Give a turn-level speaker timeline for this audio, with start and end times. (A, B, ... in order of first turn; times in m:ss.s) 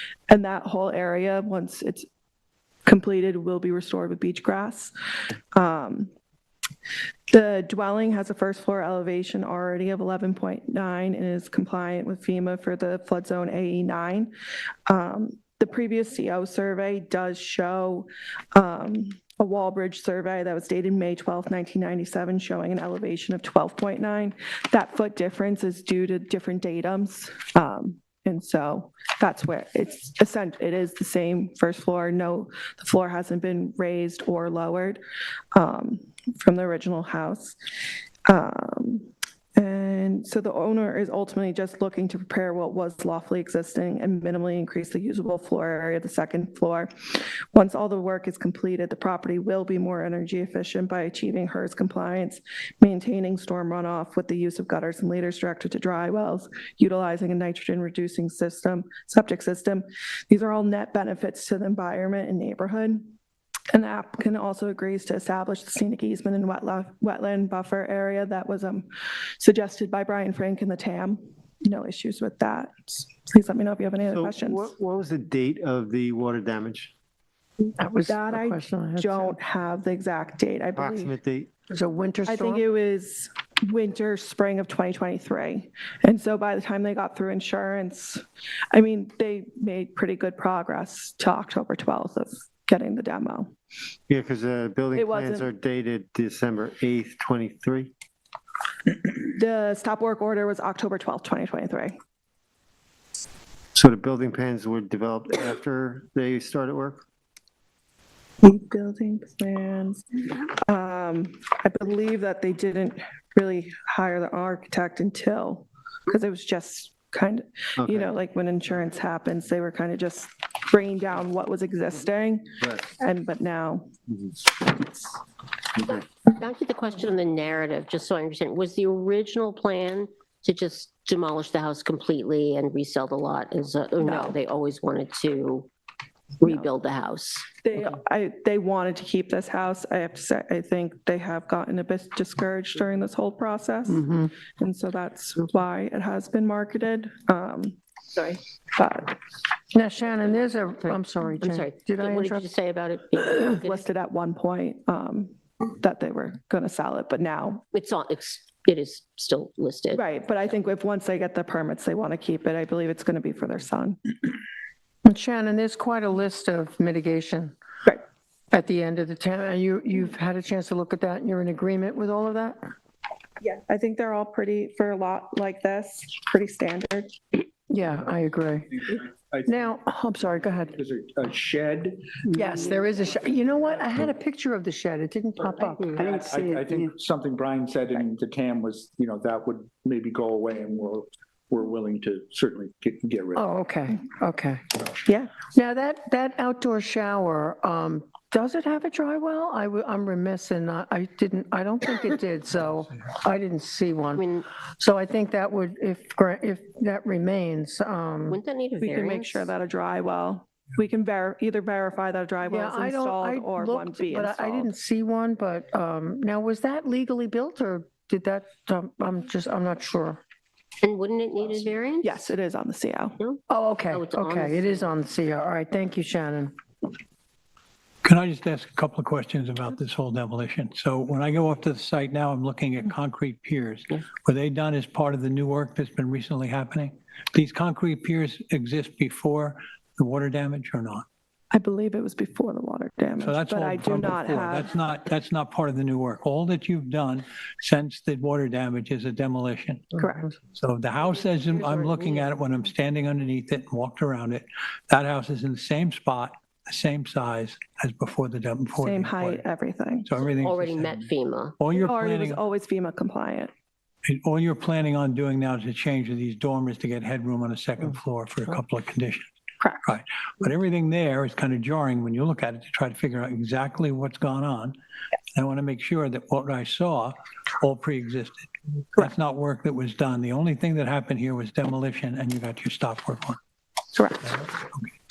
0:00.3-0:02.0 A
0:02.8-0:04.9 A
0:05.5-0:06.1 A
0:07.3-0:14.3 A
0:14.9-0:35.0 A
0:35.5-0:37.6 A
0:38.3-1:03.1 A
1:03.7-1:14.7 A
1:14.1-1:16.9 B
1:17.8-1:19.4 C
1:18.1-1:21.1 A
1:20.7-1:21.5 B
1:21.7-1:22.6 C
1:22.3-1:33.5 A
1:34.1-1:37.9 B
1:34.9-1:35.5 A
1:39.2-1:42.0 A
1:43.7-1:47.0 B
1:48.4-2:03.9 A
1:57.8-1:58.1 B
2:04.5-2:05.2 A
2:06.3-2:15.7 D
2:14.0-2:14.4 A
2:16.4-2:17.5 D
2:17.6-2:29.2 A
2:23.9-2:24.3 C
2:29.7-2:32.5 C
2:31.4-2:33.8 D
2:33.6-2:37.6 A
2:37.7-2:40.0 D
2:39.9-2:44.0 A
2:45.0-2:47.5 C
2:48.5-2:52.7 C
2:53.4-2:57.1 A
2:57.7-3:00.8 C
2:59.0-2:59.6 E
3:00.7-3:02.2 E
3:02.2-3:06.1 C
3:06.0-3:13.4 E
3:13.3-3:14.6 C
3:15.0-3:15.3 A
3:15.5-3:28.4 C
3:24.1-3:24.5 D
3:28.3-3:29.5 D
3:28.8-3:34.7 A
3:32.4-3:40.2 C
3:40.8-3:42.3 D
3:42.0-3:43.2 A
3:43.2-3:44.8 D
3:43.5-3:46.5 C
3:48.0-4:01.0 F
4:01.5-4:04.7 A
4:03.2-4:19.4 F
4:10.0-4:10.3 A
4:18.8-4:20.1 A
4:20.0-4:22.4 F
4:20.4-4:21.6 D
4:21.7-4:23.5 A
4:24.0-4:29.3 F
4:29.8-4:34.7 F
4:35.3-4:43.4 F
4:43.9-4:44.2 A